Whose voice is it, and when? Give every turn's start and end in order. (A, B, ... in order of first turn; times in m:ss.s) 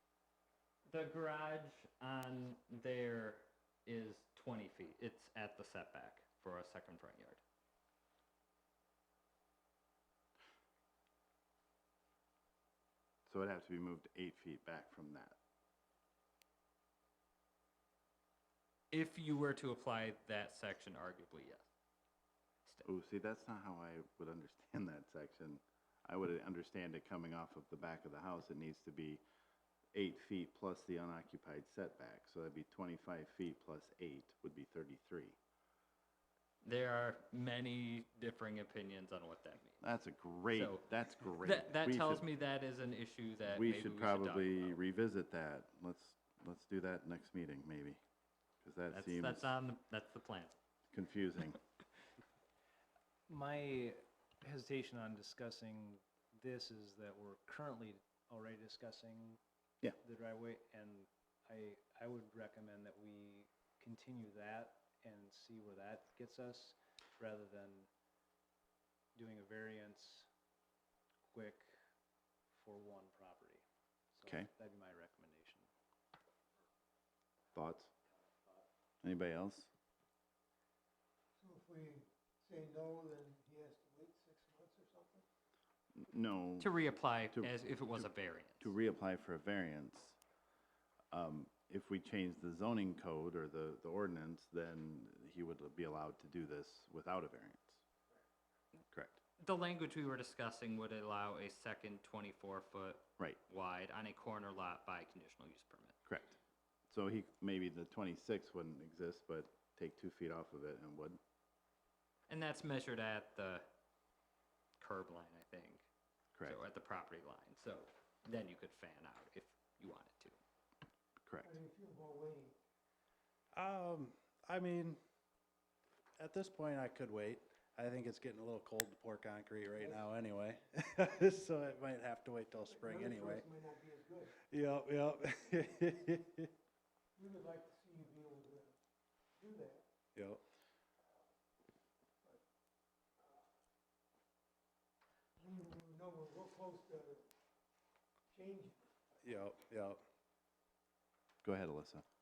0:00.9-0:07.4 A
0:13.3-0:15.4 B
0:18.9-0:21.7 A
0:22.8-0:29.2 B
0:29.9-0:35.4 B
0:36.6-0:39.8 A
0:39.8-0:42.2 B
0:40.5-0:40.9 A
0:41.4-0:44.8 A
0:43.5-0:48.0 B
0:48.6-0:49.5 B
0:48.9-0:50.6 A
0:50.9-0:51.6 B
0:53.3-0:59.4 C
1:00.0-1:07.9 C
1:09.1-1:10.3 C
1:11.3-1:11.7 C
1:12.5-1:13.6 C
1:14.1-1:15.7 C
1:14.2-1:14.5 B
1:17.5-1:17.9 B
1:18.2-1:18.6 C
1:19.0-1:19.7 B
1:21.4-1:25.2 D
1:26.0-1:26.7 B
1:26.6-1:28.7 A
1:27.3-1:30.2 B
1:31.1-1:37.8 B
1:38.9-1:39.2 B
1:39.4-1:46.0 A
1:46.0-1:46.4 B
1:46.9-1:51.2 B
1:52.3-1:53.6 A
1:54.8-1:55.9 A
1:56.3-1:56.6 B
1:56.4-2:00.4 A
2:01.2-2:01.5 B
2:01.4-2:02.6 D
2:03.5-2:05.0 E
2:06.2-2:13.5 E
2:09.8-2:10.0 D
2:12.6-2:14.3 D
2:14.3-2:16.5 E
2:17.2-2:18.7 D
2:19.4-2:19.9 D
2:20.1-2:20.4 E
2:23.2-2:23.4 D
2:25.4-2:27.2 D
2:28.3-2:28.8 D
2:29.2-2:30.0 E
2:31.4-2:32.0 B